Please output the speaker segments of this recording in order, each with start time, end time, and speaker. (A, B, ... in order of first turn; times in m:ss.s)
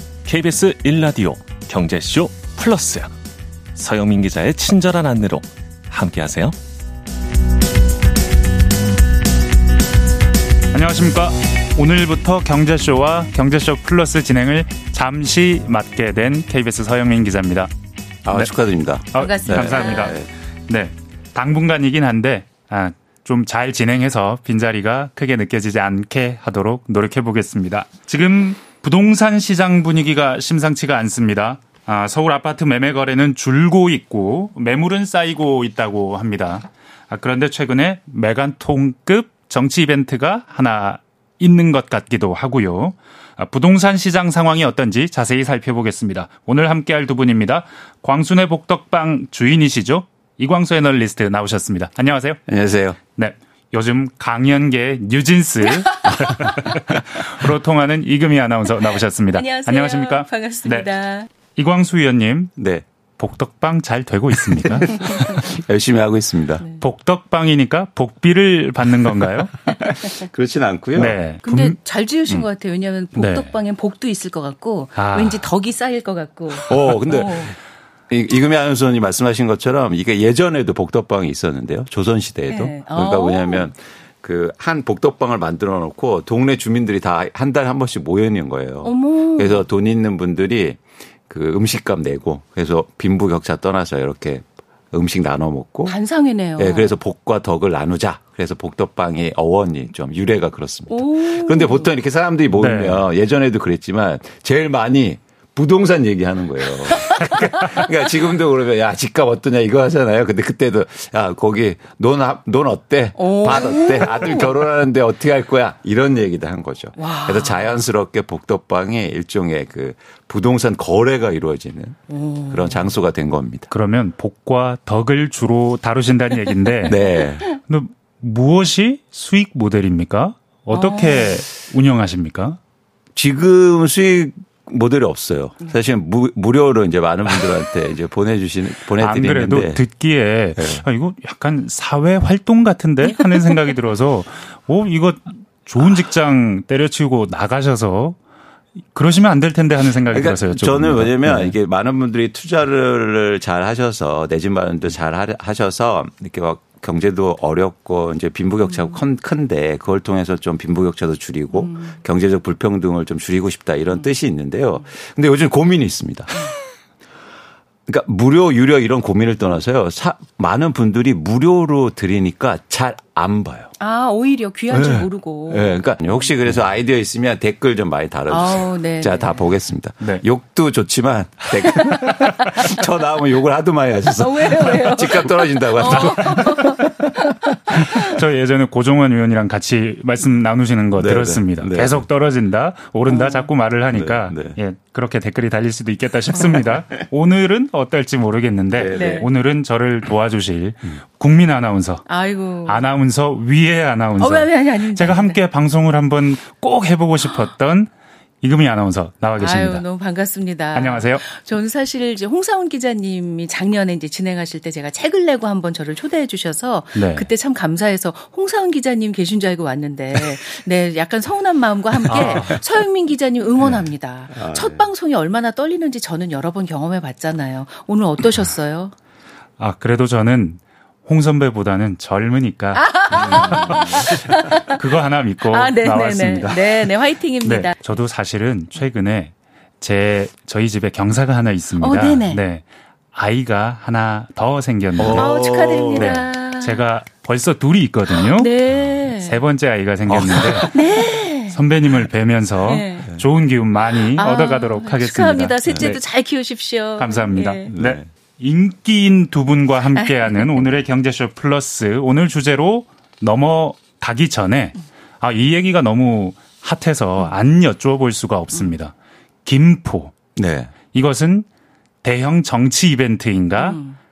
0:00.2-0:03.1 A
0:03.8-0:06.6 A
0:10.7-0:17.7 B
0:18.2-0:20.3 C
0:19.1-0:52.4 B
0:19.2-0:20.2 D
0:52.5-0:53.0 C
0:53.2-1:00.9 B
0:59.3-1:01.3 D
1:01.6-1:02.5 B
1:02.6-1:02.8 C
1:03.2-1:05.1 B
1:04.5-1:06.6 C
1:06.8-1:09.7 B
1:09.6-1:11.2 C
1:11.0-1:11.8 B
1:11.4-1:17.6 D
1:13.2-1:13.5 B
1:15.0-1:15.5 B
1:16.7-1:17.5 C
1:18.1-1:36.0 C
1:22.5-1:23.7 D
1:28.8-1:29.6 D
1:35.9-1:36.9 D
1:36.6-2:02.0 C
1:40.9-1:41.9 D
1:42.6-1:43.0 B
1:47.0-1:47.3 D
1:53.2-1:54.5 D
1:57.0-1:57.8 D
2:02.1-2:02.9 D
2:02.5-2:03.7 C
2:03.7-2:12.6 B
2:06.8-2:07.5 C
2:10.7-2:11.4 D
2:13.2-2:19.8 C
2:19.0-2:28.2 B
2:20.6-2:20.8 C
2:28.9-2:31.6 B
2:30.1-2:46.5 C
2:41.6-2:42.0 D
2:47.9-2:53.7 C
2:53.8-2:55.8 D
2:54.7-3:06.6 C
2:58.3-2:59.5 D
3:02.0-3:02.5 D
3:04.1-3:08.2 D
3:06.0-3:06.9 B
3:07.7-3:22.1 B
3:11.0-3:12.0 C
3:13.1-3:13.5 D
3:13.9-3:14.6 C
3:18.8-3:19.3 C
3:18.9-3:19.3 D
3:22.1-3:22.9 D
3:22.7-3:27.9 B
3:24.2-3:25.4 D
3:28.4-3:29.8 B
3:29.4-3:48.9 D
3:30.7-3:31.2 B
3:37.0-3:37.3 B
3:42.1-3:42.6 B
3:42.1-3:42.6 C
3:44.4-3:44.8 C
3:49.6-4:05.3 B
3:52.8-3:54.8 D
3:53.1-3:54.5 C
3:55.5-3:57.8 D
4:01.8-4:02.4 D
4:05.0-4:06.2 C
4:05.1-4:06.8 D
4:05.9-4:08.5 B
4:08.1-4:09.4 D
4:09.2-4:10.9 B
4:10.1-4:10.7 C
4:10.4-4:11.6 D
4:11.5-4:16.0 B
4:12.7-4:13.1 D
4:13.9-4:17.7 D
4:17.0-4:28.9 B
4:17.7-4:18.1 C
4:20.0-4:20.6 D
4:29.4-4:30.2 B
4:30.4-4:30.7 C
4:30.9-4:31.5 B
4:32.0-4:33.8 B
4:33.6-4:34.0 D